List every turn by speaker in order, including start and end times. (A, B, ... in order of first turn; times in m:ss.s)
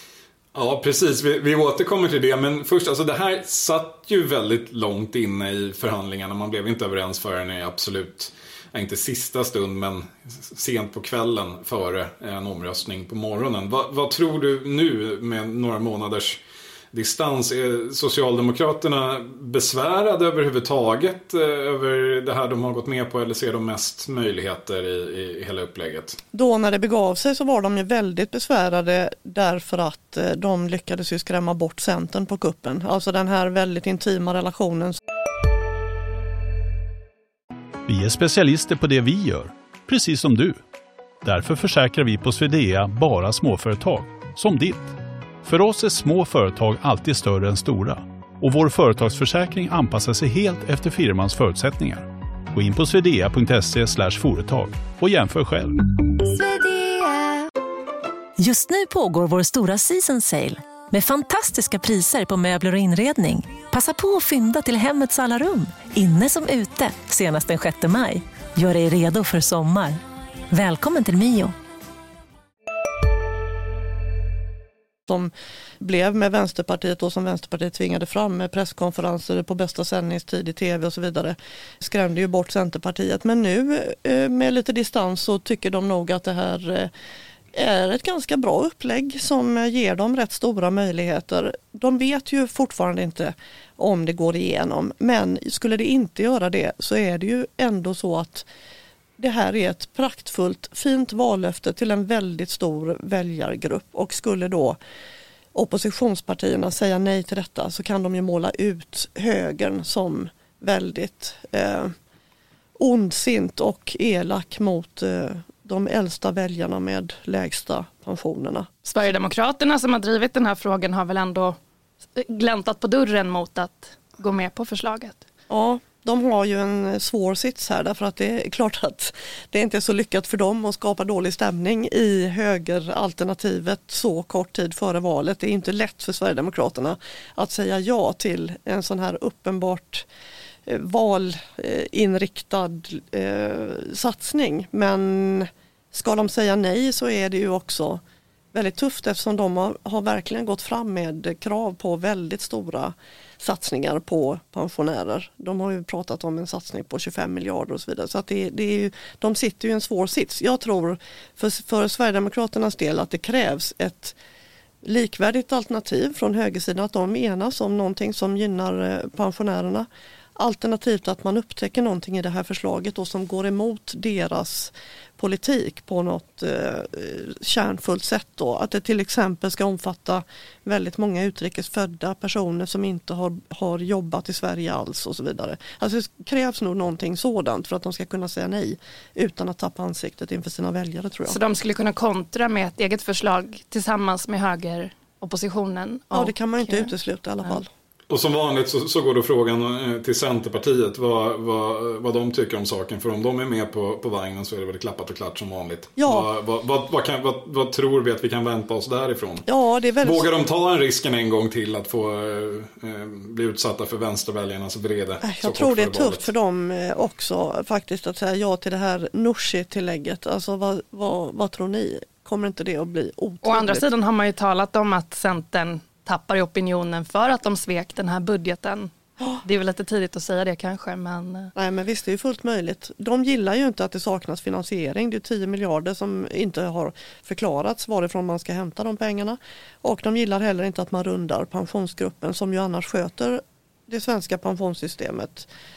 0:00.6-0:16.4 A
0:16.9-0:26.2 A
0:26.3-0:35.0 B
0:37.9-0:40.6 C
0:41.2-0:55.8 C
0:58.4-1:10.0 D
1:10.5-1:11.6 D
1:15.1-1:26.9 B
1:27.5-1:38.5 B
1:39.2-1:44.8 B
1:45.5-1:51.9 B
1:52.8-1:58.7 B
1:58.8-2:01.6 E
2:02.2-2:05.2 E
2:05.5-2:20.1 B
2:20.7-2:28.0 B
2:28.5-2:44.2 B
2:44.8-3:11.4 B
3:11.3-3:16.9 E
3:16.1-3:17.7 B
3:18.1-3:29.5 A
3:26.0-3:26.3 B
3:29.5-3:30.3 B
3:30.0-3:36.3 A
3:35.2-3:43.9 B
3:43.4-3:51.5 E
3:51.6-4:05.5 B